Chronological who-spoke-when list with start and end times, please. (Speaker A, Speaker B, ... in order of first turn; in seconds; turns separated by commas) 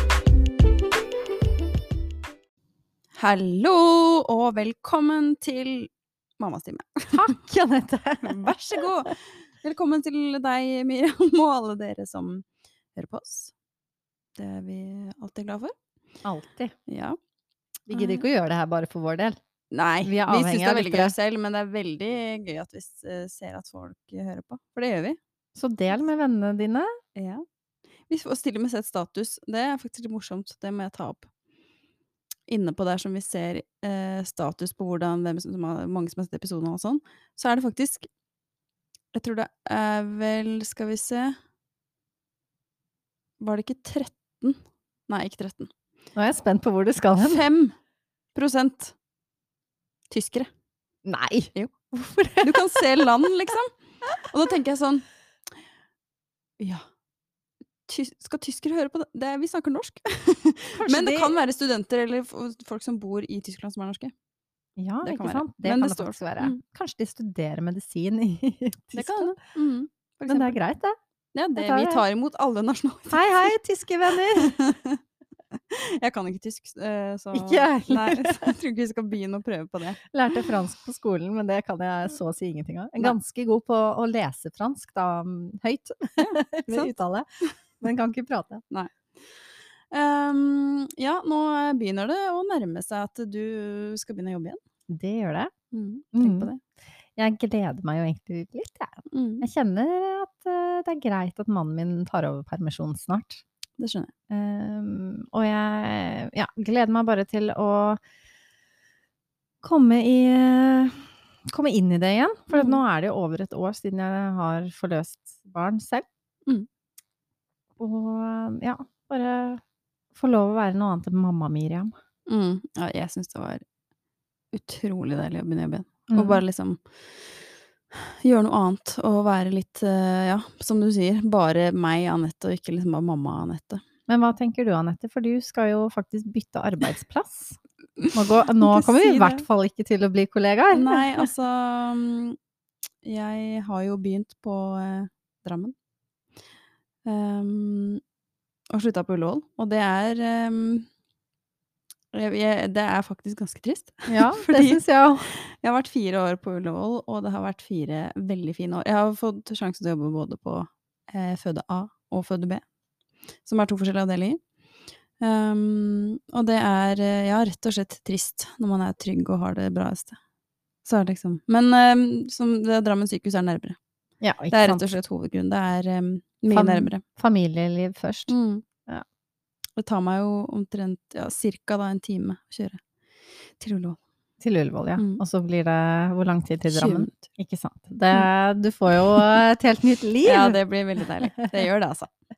Speaker A: 3.1-7.3, Speaker B: 7.1-8.8, Speaker A: 8.2-13.5, Speaker A: 14.3-15.7, Speaker B: 16.2-16.7, Speaker A: 16.9-17.2, Speaker B: 17.9-19.4, Speaker A: 17.9-18.2, Speaker A: 19.7-25.2, Speaker B: 20.0-21.1, Speaker B: 25.6-26.9, Speaker A: 27.1-27.4, Speaker A: 28.1-31.3, Speaker A: 32.5-38.1, Speaker A: 39.1-41.4, Speaker A: 43.4-45.7, Speaker B: 46.1-47.4, Speaker A: 47.2-47.8, Speaker A: 48.3-48.9, Speaker A: 50.1-50.5, Speaker B: 51.0-53.0, Speaker A: 52.4-55.1, Speaker A: 56.6-56.9, Speaker A: 57.9-64.1, Speaker B: 60.8-61.4, Speaker B: 64.8-69.4, Speaker A: 65.0-66.6, Speaker A: 68.9-70.6, Speaker B: 70.3-71.0, Speaker A: 71.3-73.5, Speaker B: 71.6-72.0, Speaker B: 73.1-74.6, Speaker A: 74.3-75.0, Speaker A: 75.7-80.0, Speaker B: 77.3-78.5, Speaker B: 80.1-87.2, Speaker A: 86.2-86.9, Speaker B: 87.8-88.6, Speaker A: 88.7-94.6, Speaker B: 94.9-95.5, Speaker A: 95.7-96.6, Speaker B: 96.1-96.5, Speaker B: 97.2-103.4, Speaker A: 99.1-99.4, Speaker A: 103.8-104.1, Speaker B: 104.3-108.0, Speaker B: 109.6-116.0, Speaker A: 112.5-112.8, Speaker B: 117.8-119.6, Speaker B: 120.1-121.9, Speaker A: 122.3-123.6, Speaker A: 124.5-127.3, Speaker B: 126.1-126.4, Speaker A: 128.2-133.8, Speaker B: 134.1-137.6, Speaker A: 138.0-139.4, Speaker B: 138.1-141.2, Speaker A: 140.7-142.4, Speaker A: 143.0-145.7, Speaker A: 147.0-148.0, Speaker A: 148.7-150.9, Speaker A: 152.1-162.7, Speaker B: 154.1-155.3, Speaker A: 163.4-164.4, Speaker A: 165.2-170.2, Speaker A: 170.8-173.8, Speaker B: 174.2-174.8, Speaker A: 174.5-177.0, Speaker B: 176.5-178.3, Speaker A: 178.3-178.6, Speaker A: 179.8-182.8, Speaker A: 183.6-184.0, Speaker B: 184.4-190.6, Speaker A: 184.9-185.2, Speaker A: 186.7-187.2, Speaker A: 190.2-192.1